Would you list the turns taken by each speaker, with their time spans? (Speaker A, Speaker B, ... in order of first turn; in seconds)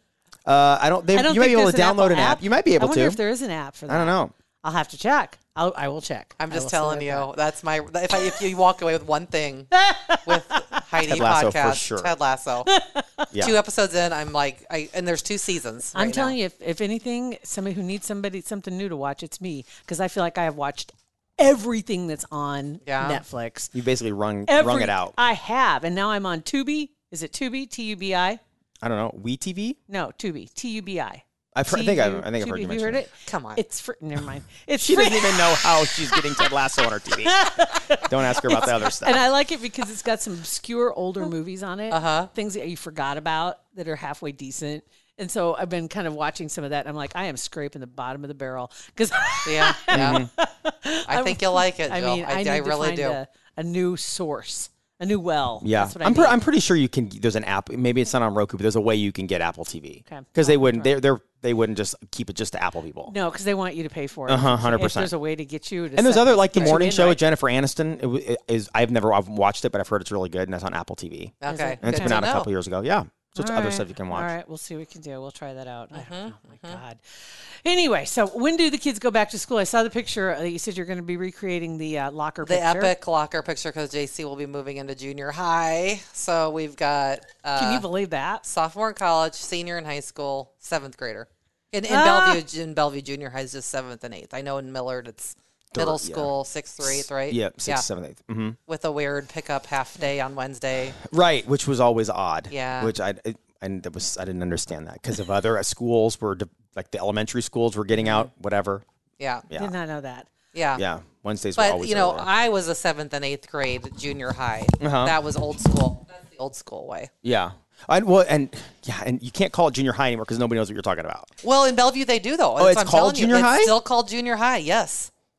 Speaker A: 0.5-3.2, 3.9-4.3, 11.0-12.1, 23.7-25.1, 28.8-29.8, 31.5-33.0, 34.8-39.2, 49.9-50.3, 55.6-63.1, 64.3-65.1, 66.0-74.3, 95.7-98.6, 101.0-108.8, 110.8-112.3, 114.8-115.1, 117.2-121.3, 122.6-123.7
Speaker B: 1.1-7.3, 9.7-10.8, 12.7-13.3, 15.9-23.7, 24.5-28.4, 29.9-36.4, 37.2-56.4, 60.0-61.0, 63.1-67.2, 71.5-72.2, 73.4-82.9, 87.5-88.4, 91.9-92.4, 109.5-110.3
Speaker C: 6.4-9.7, 10.2-12.7, 13.4-16.4, 22.9-23.2, 33.2-33.6, 41.9-42.3, 49.4-50.2, 51.1-53.2, 71.4-72.5, 75.9-76.8, 82.4-87.8, 88.4-97.8, 98.7-101.0, 102.5-102.9, 108.0-108.3, 109.2-109.5, 110.5-110.8, 111.5-117.1, 121.4-125.1